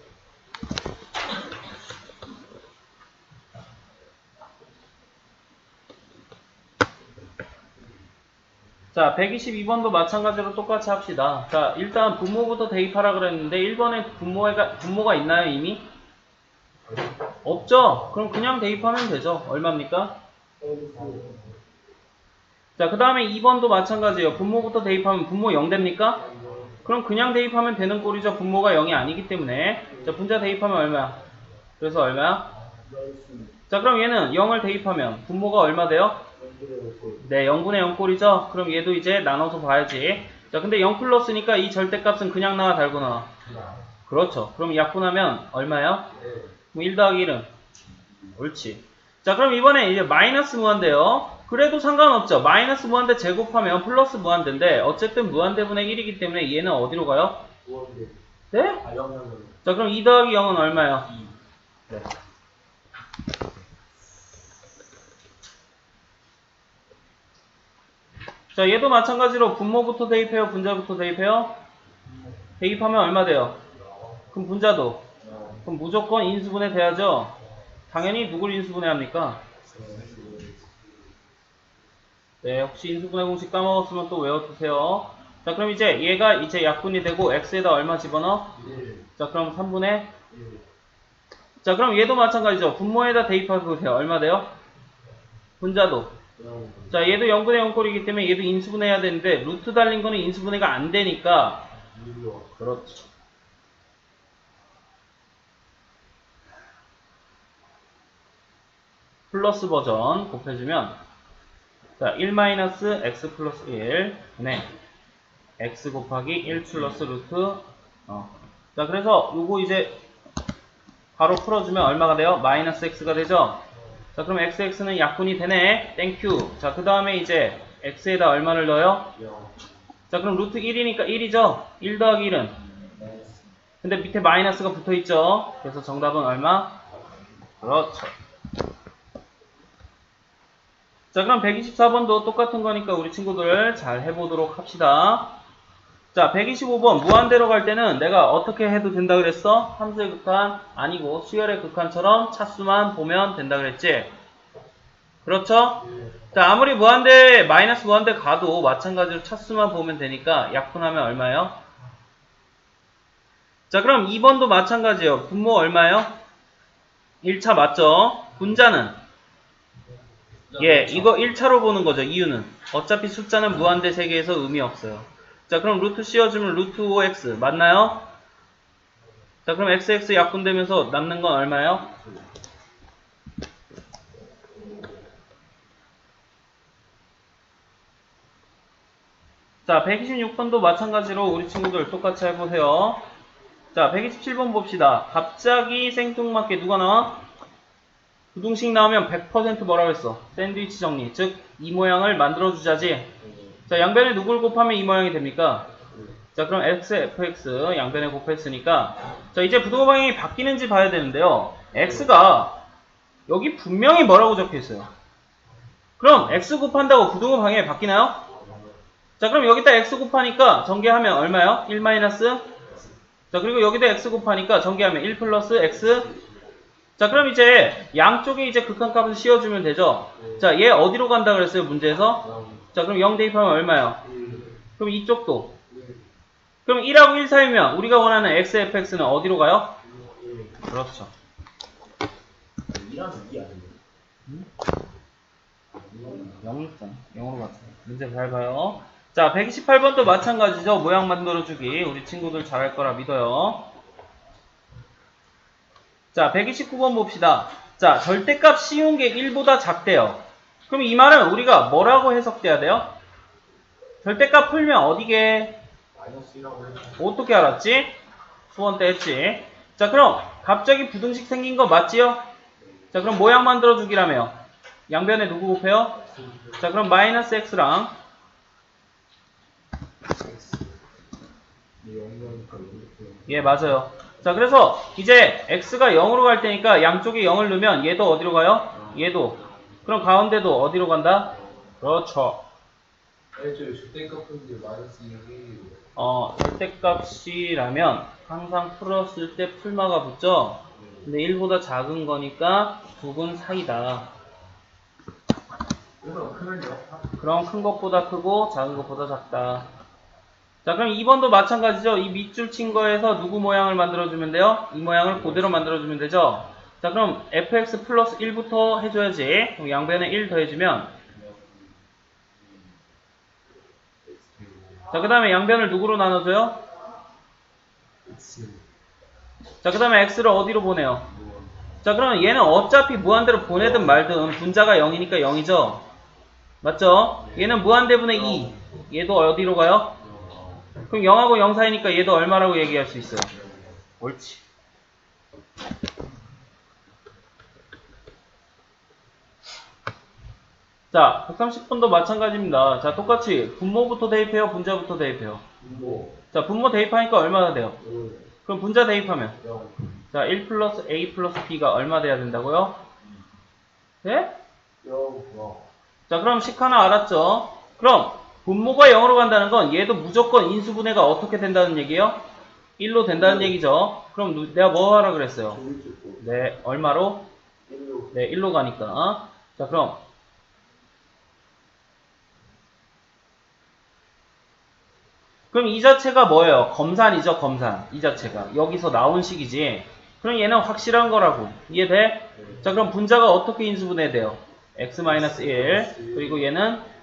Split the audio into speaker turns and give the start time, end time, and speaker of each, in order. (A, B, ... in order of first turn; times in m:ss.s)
0:08.9-0:15.8 A
0:17.4-0:20.2 A
0:20.6-0:21.6 B
0:22.8-0:26.2 A
0:26.2-0:26.8 B
0:26.8-0:31.2 A
0:31.8-0:32.5 A
0:32.6-0:33.6 B
0:33.7-0:36.2 A
0:36.4-0:37.2 B
0:37.2-0:43.3 A
0:43.4-0:43.8 B
0:44.1-0:46.1 A
0:46.1-0:46.6 B
0:46.7-0:47.5 A
0:48.4-0:57.4 A
0:57.6-0:58.2 B
0:58.5-0:58.8 A
0:58.8-0:59.6 B
0:59.6-1:01.1 A
1:08.5-1:11.6 A
1:12.6-1:13.6 A
1:14.3-1:15.0 A
1:15.2-1:15.7 B
1:15.6-1:17.3 A
1:17.9-1:19.4 A
1:19.6-1:20.8 B
1:22.4-1:28.5 A
1:28.6-1:29.1 B
1:29.2-1:30.1 A
1:30.3-1:30.6 B
1:31.6-1:34.5 A
1:35.6-1:36.1 A
1:36.4-1:37.1 B
1:36.9-1:41.6 A
1:41.7-1:42.7 B
1:42.6-1:43.0 A
1:49.3-1:51.0 A
1:52.0-1:54.7 A
1:55.6-2:00.0 A
2:01.1-2:03.6 A
2:04.1-2:09.1 A
2:09.1-2:09.6 B
2:10.1-2:12.6 A
2:12.6-2:13.5 B
2:13.8-2:16.8 A
2:17.6-2:18.1 A
2:21.1-2:25.3 A
2:26.1-2:34.1 A
2:35.2-2:41.6 A
2:43.7-2:46.1 A
2:47.2-2:49.0 A
2:50.5-2:51.3 B
2:50.6-2:58.0 A
2:59.4-3:01.9 A
3:01.9-3:02.3 B
3:09.6-3:13.0 A
3:13.7-3:17.2 A
3:18.3-3:23.1 A
3:23.2-3:23.6 B
3:23.7-3:25.7 A
3:25.9-3:26.2 B
3:26.3-3:32.6 A
3:31.7-3:32.1 B
3:33.3-3:34.9 A
3:36.0-3:38.2 A
3:38.3-3:38.8 B
3:39.2-3:42.5 A
3:43.3-3:46.1 A
3:45.9-3:46.3 B
3:47.0-3:54.0 A
3:50.2-3:50.5 B
3:52.2-3:52.7 B
3:54.0-3:54.6 B
3:54.8-3:55.6 A
3:55.7-3:56.1 B
3:56.6-3:59.7 A
3:59.8-4:00.6 B
4:00.7-4:01.1 A
4:02.6-4:03.8 B
4:05.7-4:06.4 B
4:06.4-4:13.7 A
4:16.1-4:22.9 A
4:24.0-4:25.6 A
4:25.9-4:27.0 B
4:27.0-4:27.9 A
4:28.5-4:32.2 A
4:32.9-4:34.4 A
4:34.9-4:36.0 A
4:36.0-4:36.7 B
4:36.6-4:37.9 A
4:40.1-4:40.8 B
4:41.8-4:43.4 B
4:43.3-4:52.4 A
4:48.7-4:49.5 B
4:51.4-4:51.6 B
4:53.3-4:55.9 B
4:56.0-5:04.1 A
5:00.7-5:01.1 B
5:06.0-5:07.2 B
5:07.2-5:09.7 A
5:10.6-5:20.9 A
5:21.1-5:21.8 B
5:22.4-5:22.7 B
5:24.0-5:24.9 B
5:24.9-5:26.6 A
5:28.0-5:28.6 B
5:29.6-5:31.1 A
5:31.1-5:31.8 B
5:31.8-5:35.8 A
5:33.6-5:34.0 B
5:36.6-5:40.0 A
5:37.2-5:38.7 B
5:40.0-5:40.8 B
5:40.9-5:43.3 A
5:43.3-5:43.8 B
5:44.0-5:44.4 A
5:50.9-5:55.4 A
5:55.6-5:56.2 B
5:56.3-5:57.8 A
5:57.8-5:58.3 B
5:58.4-5:59.4 A
5:59.4-6:00.0 B
6:00.1-6:02.8 A
6:04.0-6:04.3 A
6:04.8-6:05.7 B
6:06.1-6:12.2 A
6:12.8-6:15.6 A
6:13.2-6:13.5 B
6:15.5-6:16.2 B
6:16.2-6:17.2 A
6:17.6-6:18.2 B
6:18.1-6:20.0 A
6:25.5-6:36.8 A
6:32.4-6:32.7 B
6:35.0-6:36.5 B